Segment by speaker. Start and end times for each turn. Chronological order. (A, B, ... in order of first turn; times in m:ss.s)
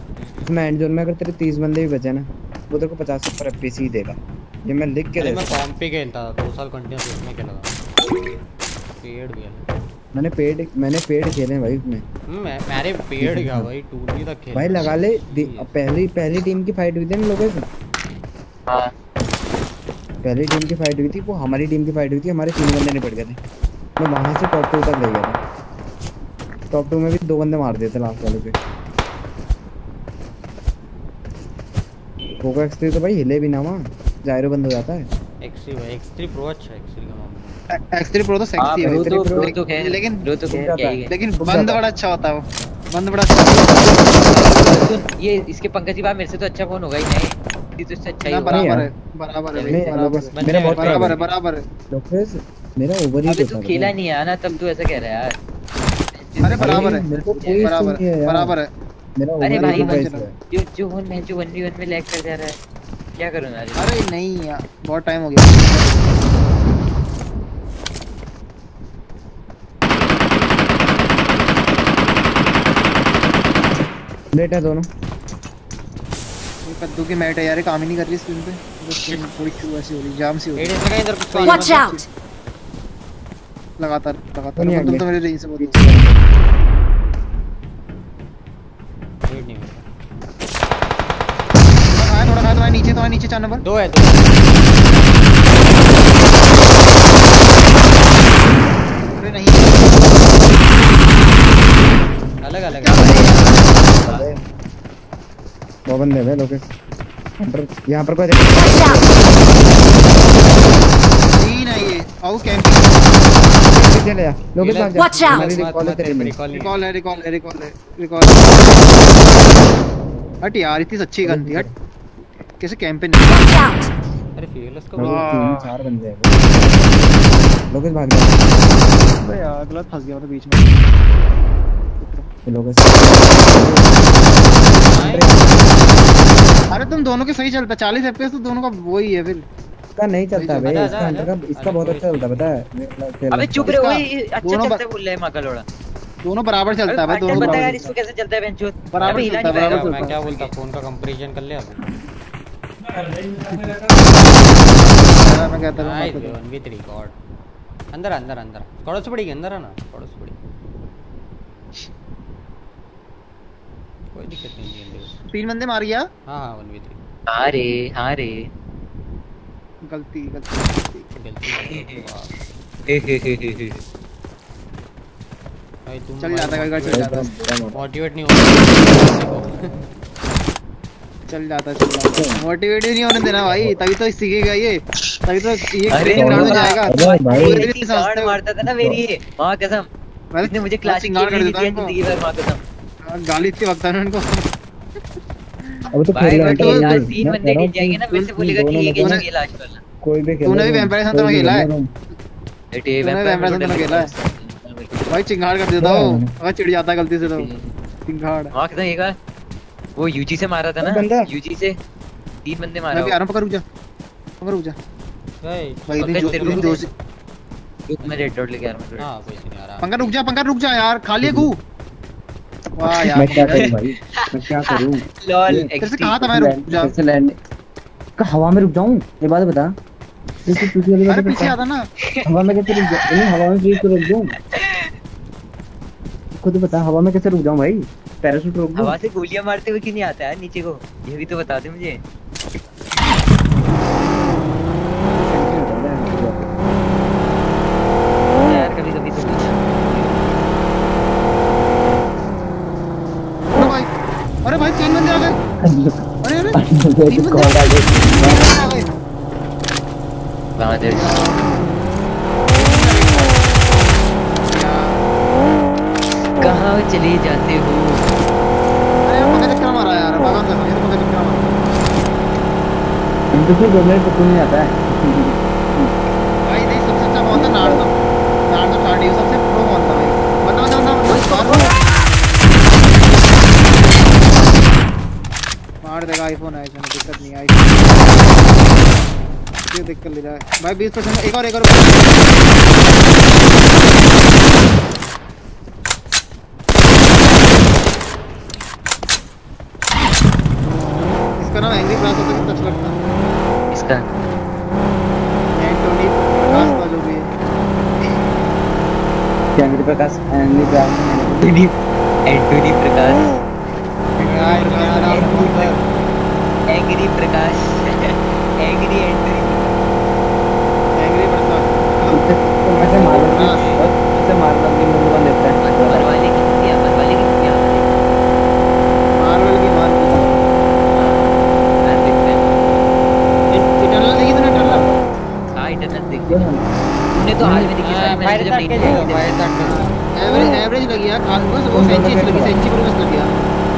0:00.4-0:05.6 A
0:05.2-0:07.8 B
0:09.0-0:09.6 B
0:10.1-0:12.0 A
0:12.3-0:15.7 B
0:13.2-0:13.7 A
0:14.5-0:17.7 A
0:20.2-0:23.4 A
0:24.0-0:25.4 A
0:26.7-0:28.6 A
0:32.4-0:35.1 A
0:35.4-0:37.6 B
0:37.8-0:40.3 C
0:38.6-0:41.1 D
0:38.8-0:39.5 A
0:40.5-0:41.8 A
0:41.1-0:44.2 C
0:43.7-0:48.7 D
0:48.2-0:51.6 C
0:48.4-0:48.9 A
0:49.6-0:51.2 A
0:50.3-0:51.3 B
0:51.9-0:53.9 A
0:53.3-0:55.4 D
0:56.1-0:57.8 D
0:56.4-0:57.0 C
0:56.5-0:58.5 A
0:57.6-0:58.7 C
0:59.2-1:00.3 A
0:59.4-1:02.6 D
0:59.5-1:00.2 C
1:03.2-1:03.9 D
1:03.8-1:06.2 C
1:14.3-1:14.9 A
1:16.6-1:22.0 C
1:20.6-1:22.0 B
1:21.4-1:22.0 E
1:23.8-1:26.1 C
1:24.6-1:25.0 A
1:25.6-1:26.2 A
1:29.2-1:29.8 B
1:31.9-1:33.6 C
1:33.6-1:34.4 B
1:39.0-1:40.1 C
1:42.4-1:43.4 B
1:42.8-1:43.5 C
1:42.9-1:44.4 A
1:43.0-1:44.2 D
1:45.9-1:46.7 A
1:47.4-1:49.5 A
1:48.5-1:49.1 E
1:51.4-1:53.2 C
1:53.7-1:56.3 A
1:54.6-1:56.8 B
1:54.9-1:55.5 E
1:56.5-1:59.7 C
2:00.4-2:01.7 C
2:01.2-2:01.7 A
2:02.6-2:03.5 C
2:03.2-2:03.9 E
2:04.4-2:05.5 B
2:05.0-2:08.8 A
2:05.0-2:05.7 C
2:09.1-2:11.0 C
2:12.0-2:12.3 C
2:12.4-2:15.8 A
2:14.8-2:16.1 B
2:16.7-2:19.4 C
2:20.0-2:23.8 A
2:20.4-2:21.0 C
2:20.6-2:22.5 B
2:23.3-2:25.6 D
2:23.7-2:24.8 C
2:26.2-2:27.9 C
2:26.9-2:30.1 D
2:27.3-2:27.7 A
2:28.9-2:30.5 C
2:29.0-2:31.8 B
2:34.3-2:36.4 C
2:35.8-2:37.1 B
2:37.9-2:40.4 B
2:44.1-2:45.1 B
2:45.3-2:46.0 C
2:46.3-2:47.0 B
2:47.3-2:48.5 D
2:49.9-2:51.1 C
2:51.2-2:52.4 B
2:51.5-2:52.0 D
2:52.9-2:53.8 D
2:55.8-2:57.2 B
2:56.2-2:57.3 C
2:56.9-2:57.8 A
2:57.7-2:59.7 B
3:01.3-3:08.3 C
3:02.2-3:02.4 A
3:03.5-3:03.8 A
3:05.9-3:09.9 D
3:06.0-3:07.7 A
3:08.6-3:09.0 A
3:10.3-3:11.9 C
3:10.4-3:12.6 D
3:13.0-3:14.4 C
3:15.9-3:19.2 A
3:16.1-3:19.8 D
3:16.4-3:17.0 C
3:19.0-3:19.2 C
3:20.0-3:21.9 A
3:20.4-3:21.7 C
3:22.7-3:25.2 D
3:23.0-3:24.1 C
3:25.1-3:27.5 C
3:25.8-3:26.3 A
3:27.2-3:27.7 D
3:28.1-3:28.5 C
3:28.5-3:29.1 D
3:30.0-3:31.8 D
3:30.8-3:31.3 A
3:32.4-3:33.2 D
3:32.9-3:33.6 C
3:34.4-3:34.8 C
3:35.4-3:36.8 B
3:35.9-3:36.9 C
3:36.0-3:36.8 D
3:37.9-3:39.1 D
3:38.0-3:38.3 B
3:39.0-3:40.1 B
3:39.8-3:41.6 C
3:41.2-3:41.5 A
3:42.8-3:43.7 C
3:43.0-3:46.3 D
3:43.1-3:45.7 A
3:45.8-3:46.9 C
3:46.3-3:47.4 A
3:48.2-3:49.7 A
3:50.4-3:51.6 A
3:51.0-3:51.9 C
3:52.0-3:53.3 D
3:52.3-3:54.3 A
3:54.5-3:54.9 D
3:56.4-3:59.0 A
3:58.8-4:02.0 D
4:05.1-4:06.5 A
4:08.4-4:10.4 D
4:13.5-4:13.9 C
4:14.4-4:15.4 C
4:15.6-4:15.9 A
4:16.2-4:16.6 C
4:16.5-4:18.6 A
4:17.1-4:18.9 C
4:17.3-4:18.3 D
4:20.6-4:21.1 D
4:20.8-4:21.7 C
4:22.5-4:23.9 C
4:24.4-4:25.0 C
4:26.4-4:28.1 D
4:29.1-4:31.6 C
4:33.3-4:36.0 A
4:36.5-4:37.9 C
4:37.3-4:37.9 A
4:38.5-4:42.0 C
4:41.1-4:41.9 D
4:45.8-4:48.4 C
4:49.7-4:52.4 C
5:01.4-5:03.0 C
5:03.7-5:04.2 D
5:05.6-5:07.2 C
5:09.5-5:11.5 A
5:11.4-5:11.7 D
5:12.3-5:13.3 D
5:14.2-5:16.0 B
5:14.2-5:15.5 C
5:15.1-5:15.4 D
5:16.7-5:19.7 D
5:21.0-5:22.2 C
5:22.1-5:26.2 A
5:23.0-5:23.6 C
5:23.3-5:23.8 B
5:25.6-5:28.1 D
5:29.2-5:30.4 C
5:30.9-5:32.8 D
5:33.5-5:34.9 C
5:34.5-5:34.9 A
5:35.6-5:36.5 D
5:36.3-5:36.6 A
5:37.1-5:39.3 D
5:37.4-5:37.7 A
5:37.8-5:39.9 B
5:40.2-5:43.5 C
5:41.7-5:42.6 A